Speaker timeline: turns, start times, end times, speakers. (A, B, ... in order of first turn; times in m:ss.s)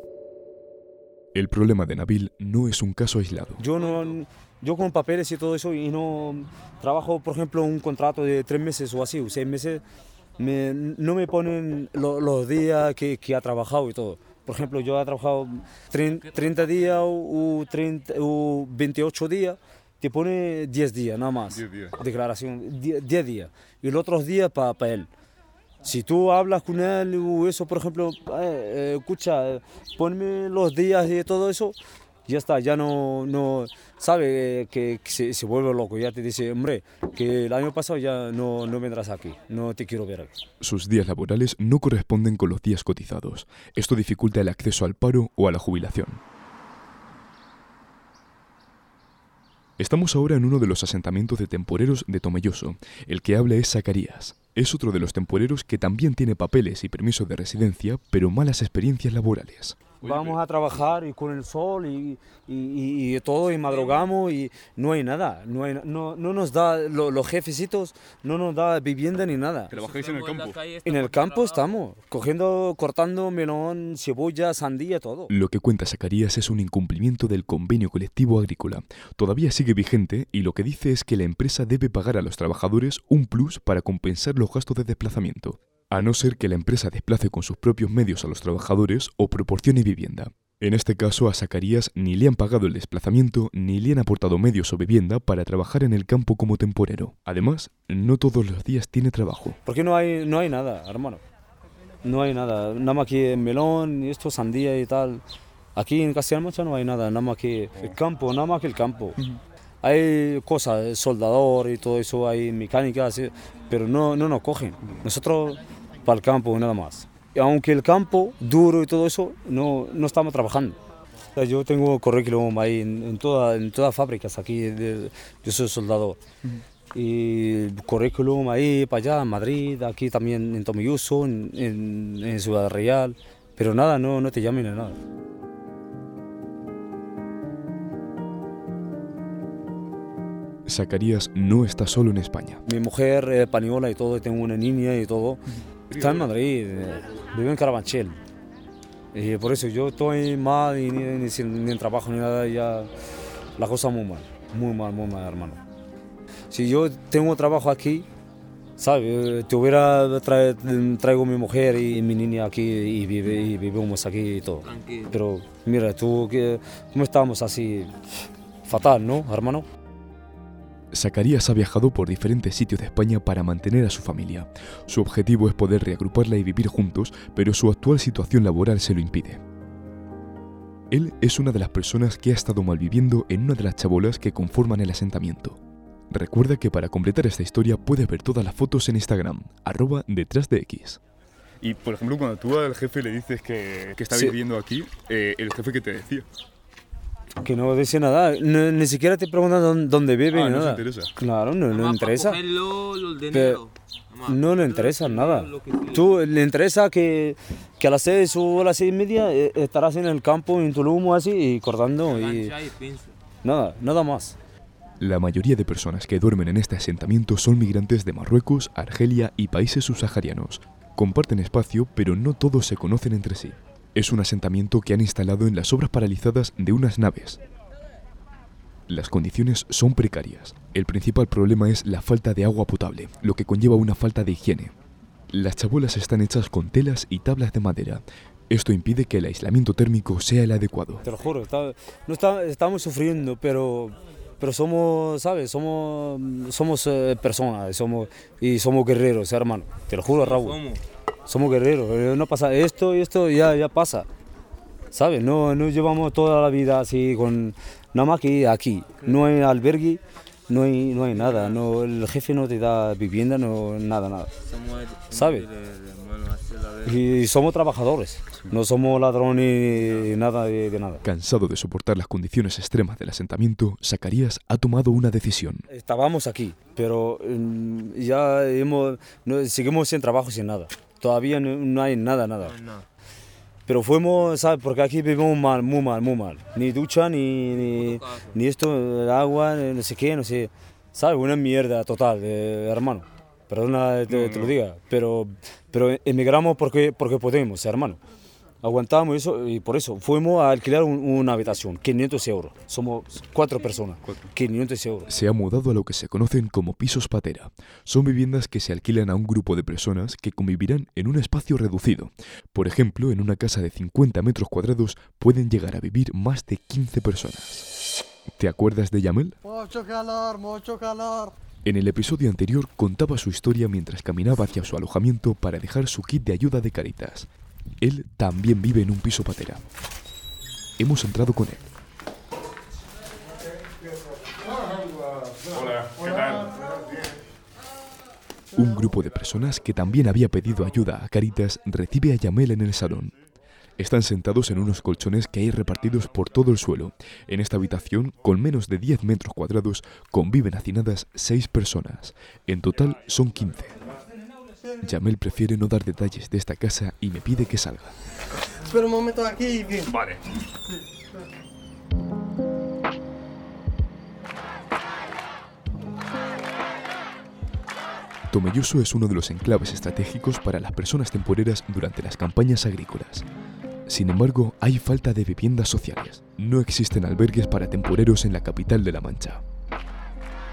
0:01.3-0:03.6 A
0:03.6-0:09.8 B
0:10.4-0:25.1 B
0:21.6-0:21.9 C
0:25.8-0:31.8 B
0:32.3-0:40.4 B
0:40.6-0:46.2 A
0:49.8-0:59.9 A
1:00.0-1:09.7 B
1:00.0-1:00.4 C
1:03.5-1:04.0 D
1:09.7-1:10.6 C
1:09.8-1:11.8 D
1:10.8-1:15.3 B
1:15.3-1:39.6 A
1:39.6-1:41.2 B
1:42.0-1:45.2 B
1:45.8-1:49.2 B
1:49.8-2:00.8 B
2:01.4-2:06.2 B
2:06.9-2:15.0 B
2:20.7-2:22.6 A
2:22.7-2:28.2 B
2:29.1-2:32.9 B
2:33.6-2:35.6 B
2:36.5-2:38.1 B
2:38.8-2:48.0 B
2:44.6-2:45.1 D
2:48.6-2:49.7 B
2:50.9-2:59.4 A
3:00.9-3:05.6 A
3:06.1-3:11.0 A
3:11.6-3:16.3 C
3:17.4-3:22.4 B
3:20.3-3:21.1 C
3:21.7-3:26.1 D
3:23.3-3:23.6 B
3:24.2-3:32.6 B
3:32.0-3:33.1 D
3:33.4-3:34.4 B
3:35.0-3:47.4 A
3:48.9-3:54.7 A
3:55.3-4:01.0 A
4:01.0-4:10.6 B
4:10.1-4:10.8 D
4:11.3-4:14.1 B
4:14.9-4:24.3 B
4:21.2-4:21.5 D
4:24.4-4:26.9 D
4:25.1-4:25.5 B
4:26.8-4:31.0 B
4:31.0-4:35.6 A
4:35.7-4:42.6 B
4:42.5-4:42.8 D
4:43.7-4:58.0 B
4:47.8-4:48.2 D
4:54.1-4:54.5 C
4:58.6-5:05.1 B
5:05.1-5:17.7 A
5:18.4-5:19.4 A
5:19.4-5:21.4 E
5:21.6-5:27.3 A
5:27.8-5:29.6 A
5:30.8-5:31.6 A
5:35.6-5:36.5 C
5:38.5-5:43.1 A
5:43.8-5:53.8 A
5:54.8-5:58.0 A
5:58.7-5:59.9 E
6:08.3-6:13.3 A
6:13.9-6:19.4 A